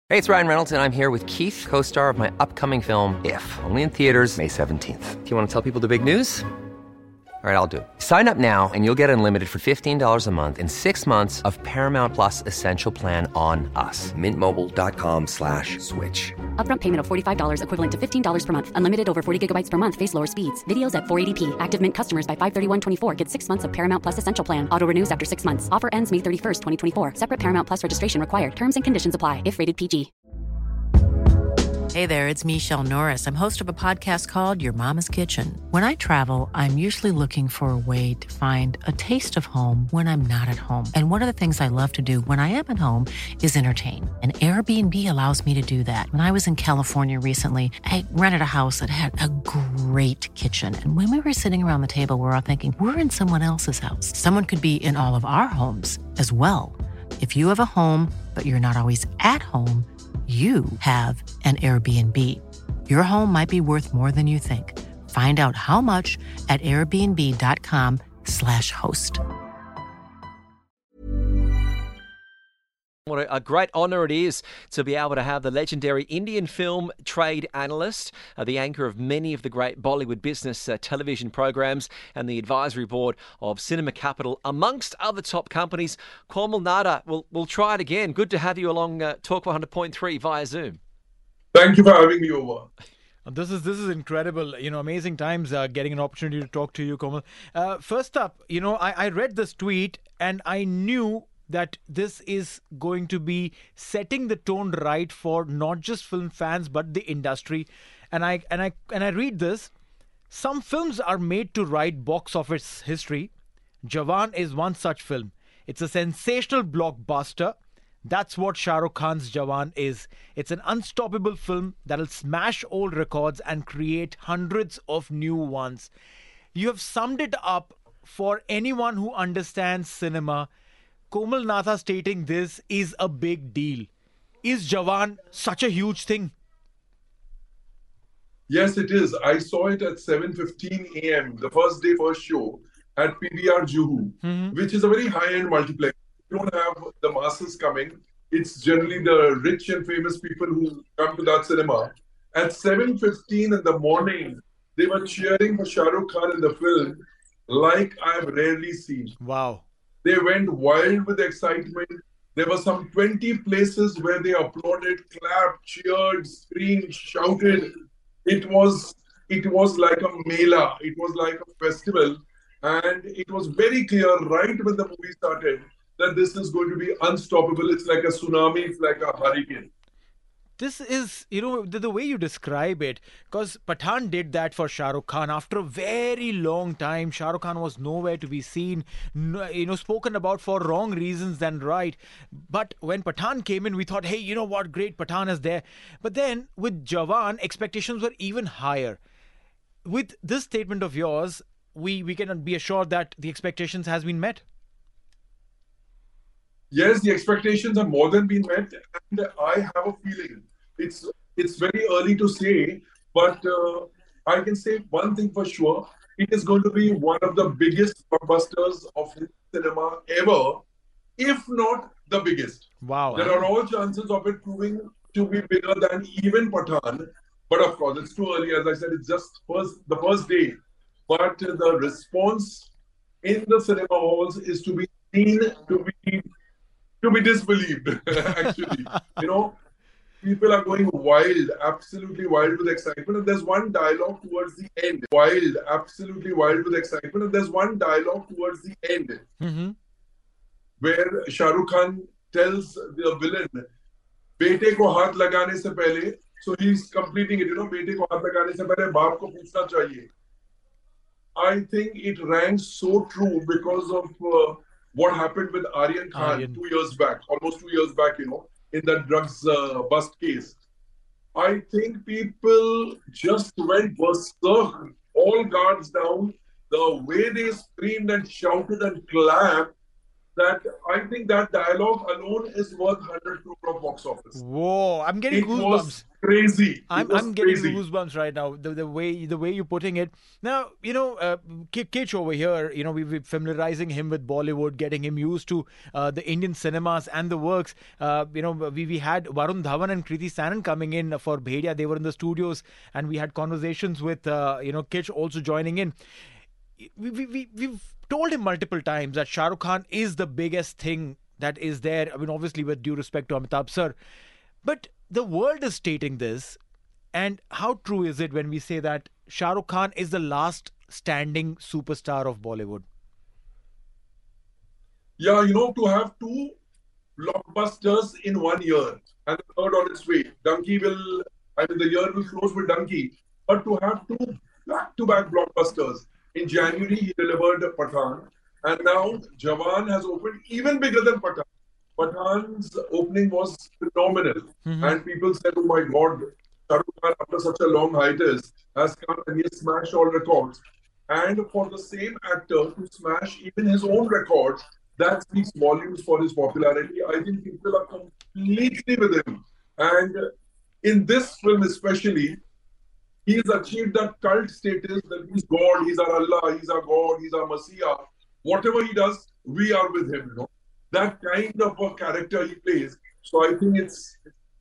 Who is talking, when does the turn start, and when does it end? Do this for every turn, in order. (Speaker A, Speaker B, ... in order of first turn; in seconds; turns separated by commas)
Speaker A: 0.1-6.5, Speaker A: 7.4-16.5, Speaker B: 16.5-30.1, Speaker C: 31.9-69.2, Speaker D: 73.1-90.8, Speaker E: 91.5-92.7, Speaker F: 93.2-109.7, Speaker F: 110.3-113.3, Speaker F: 113.8-125.9, Speaker F: 126.5-130.5, Speaker F: 131.1-133.9, Speaker F: 134.4-136.3, Speaker E: 138.5-159.1, Speaker F: 144.2-144.5, Speaker F: 159.2-159.6, Speaker E: 160.0-167.7, Speaker E: 168.2-179.7, Speaker F: 180.6-199.0, Speaker F: 199.8-204.4, Speaker E: 206.7-220.6, Speaker E: 221.2-232.7, Speaker F: 222.8-223.4, Speaker E: 233.2-236.2, Speaker E: 237.0-239.6, Speaker E: 240.2-249.2, Speaker F: 249.4-249.7, Speaker E: 250.8-253.6, Speaker E: 254.4-260.1, Speaker E: 261.4-270.6, Speaker F: 266.1-266.6, Speaker E: 271.4-279.7, Speaker E: 280.4-284.4, Speaker F: 284.3-286.0, Speaker E: 285.3-287.8, Speaker F: 286.9-305.9, Speaker F: 306.8-313.9, Speaker F: 314.6-316.6, Speaker F: 317.1-322.8, Speaker E: 325.2-326.6, Speaker E: 327.2-341.4, Speaker E: 342.0-360.2, Speaker F: 344.6-345.0, Speaker E: 360.8-362.4, Speaker E: 363.2-374.2